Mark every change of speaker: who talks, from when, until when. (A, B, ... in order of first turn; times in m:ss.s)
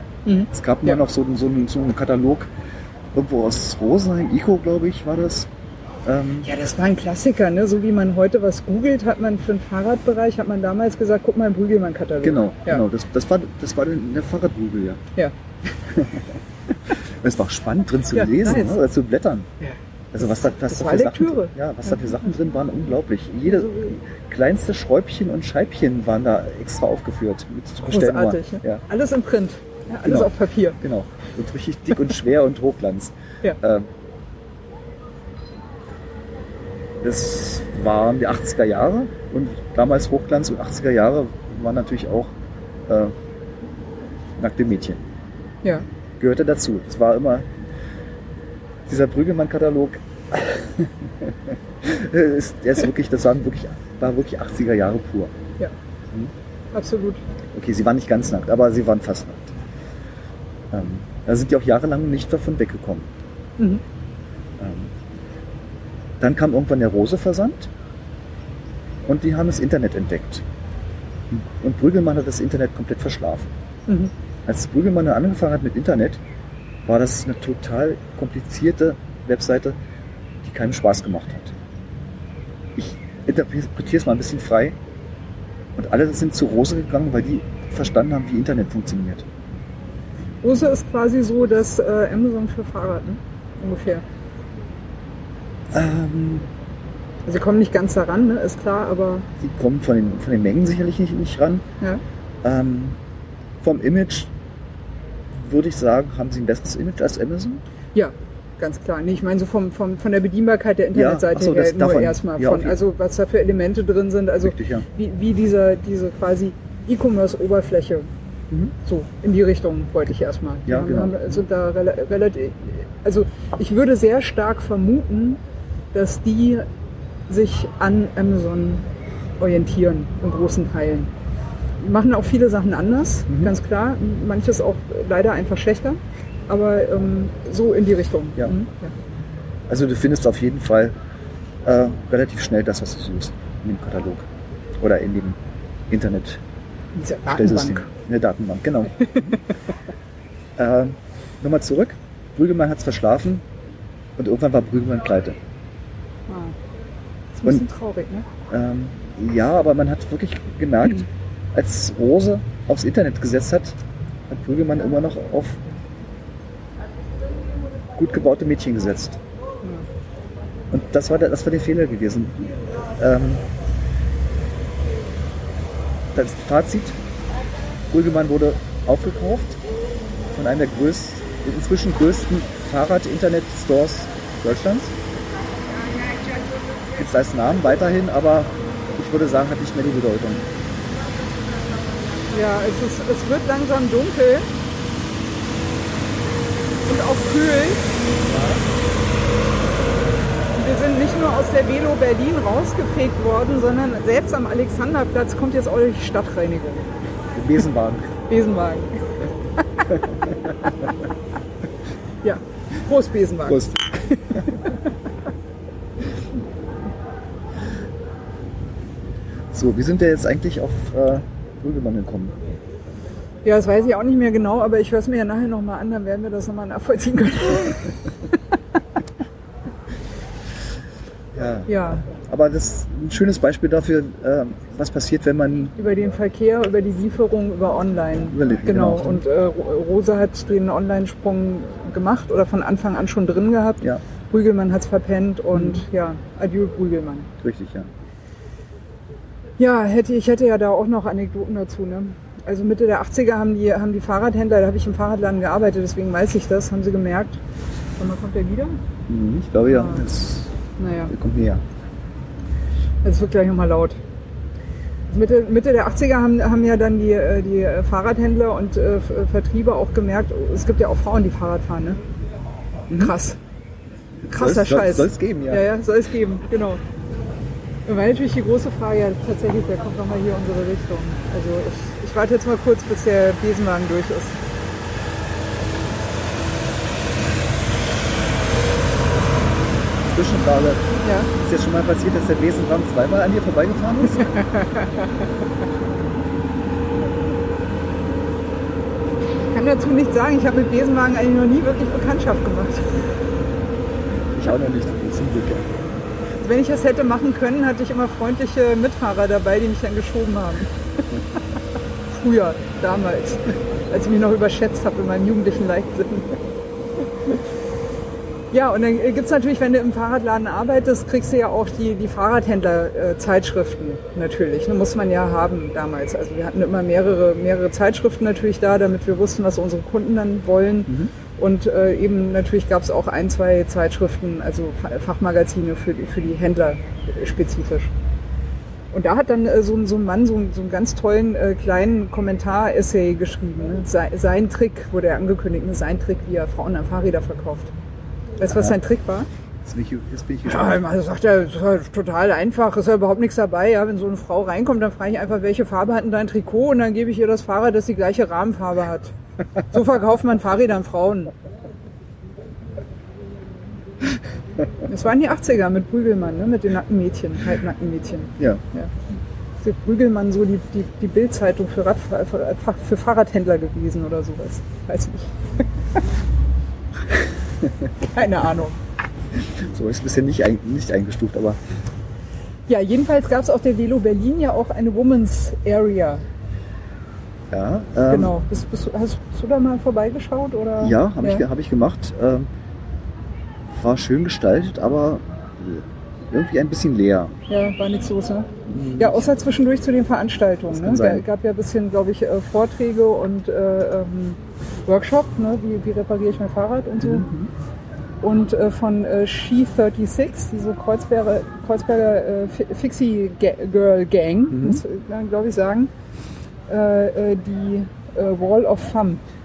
0:00.2-0:01.0 A
0:00.5-0:02.5 B
0:03.1-0:05.5 B
0:06.0-0:06.6 B
0:06.4-0:12.8 A
0:12.2-0:15.0 B
0:15.8-0:16.3 B
0:16.9-0:19.5 B
0:18.1-0:18.8 A
0:20.1-0:28.8 B
0:20.6-0:21.5 A
0:23.5-0:23.9 A
0:27.8-0:30.8 A
0:30.0-0:33.9 B
0:37.0-0:42.3 B
0:42.9-0:43.1 B
0:44.4-0:45.0 B
0:46.2-0:47.5 B
0:48.9-0:55.3 B
0:56.7-0:57.2 A
0:57.5-0:59.6 B
1:00.7-1:03.1 B
1:04.6-1:04.9 B
1:06.2-1:07.7 B
1:09.0-1:10.4 B
1:11.3-1:13.5 B
1:14.4-1:16.2 B
1:16.8-1:19.8 B
1:20.4-1:21.6 B
1:22.8-1:24.8 B
1:25.8-1:29.2 B
1:30.4-1:34.0 A
1:35.7-1:36.5 B
1:37.2-1:39.3 A
1:39.4-1:41.6 B
1:42.4-1:43.0 B
1:43.6-1:44.3 B
1:45.3-1:47.6 B
1:47.9-1:58.1 A
1:50.9-1:52.8 B
1:54.4-1:54.8 B
1:58.8-2:05.4 A
2:00.6-2:01.4 B
2:05.9-2:06.7 A
2:07.3-2:08.9 A
2:09.4-2:11.1 A
2:11.8-2:18.9 A
2:19.7-2:20.9 B
2:21.6-2:24.3 B
2:24.8-2:26.4 B
2:26.9-2:27.9 A
2:27.3-2:29.4 B
2:30.6-2:33.4 B
2:34.2-2:35.4 B
2:36.3-2:36.6 A
2:37.3-2:38.2 A
2:38.5-2:45.6 B
2:47.9-2:49.2 B
2:50.7-2:53.4 B
2:56.1-2:57.0 B
2:57.9-2:59.6 B
3:00.3-3:05.0 B
3:06.9-3:10.5 B
3:12.3-3:14.5 A
3:16.8-3:17.9 A
3:18.2-3:18.7 B
3:20.5-3:26.9 A
3:27.3-3:28.1 B
3:28.3-3:29.2 A
3:29.9-3:30.6 B
3:32.2-3:34.8 A
3:33.5-3:33.8 B
3:39.5-3:42.4 B
3:43.4-3:48.0 A
3:51.3-3:55.7 B
3:51.7-3:52.0 A
3:55.8-4:07.3 A
3:58.3-3:59.2 B
4:05.5-4:05.8 B
4:07.4-4:07.9 B
4:09.6-4:17.4 A
4:18.0-4:18.7 A
4:19.1-4:20.5 B
4:19.7-4:20.1 A
4:20.8-4:21.1 A
4:21.1-4:21.6 B
4:23.0-4:24.0 A
4:25.1-4:32.0 A
4:32.9-4:33.2 B
4:32.9-4:33.4 A
4:34.3-4:36.8 A
4:34.3-4:35.6 B
4:37.9-4:44.4 A
4:50.0-4:54.4 B
4:51.0-4:51.3 A
4:54.3-4:54.9 A
4:59.4-5:03.1 A
5:04.3-5:05.7 B
5:06.4-5:10.7 A
5:12.1-5:16.4 A
5:18.5-5:37.9 A
5:38.9-5:47.7 A
5:48.4-5:49.3 A
5:48.5-5:48.7 B
5:49.6-5:50.8 B
5:50.4-6:01.3 A
6:04.9-6:08.9 A
6:09.6-6:15.6 A
6:17.1-6:17.9 B
6:18.0-6:18.8 A
6:19.5-6:21.6 B
6:22.7-6:26.2 A
6:27.5-6:28.4 B
6:28.1-6:31.4 A
6:30.8-6:32.5 B
6:33.7-6:37.4 B
6:37.5-6:47.3 A
6:38.7-6:39.2 B
6:40.7-6:41.2 B
6:47.0-6:47.5 B
6:48.2-6:55.9 A
6:54.5-6:54.8 B
6:56.7-6:59.2 A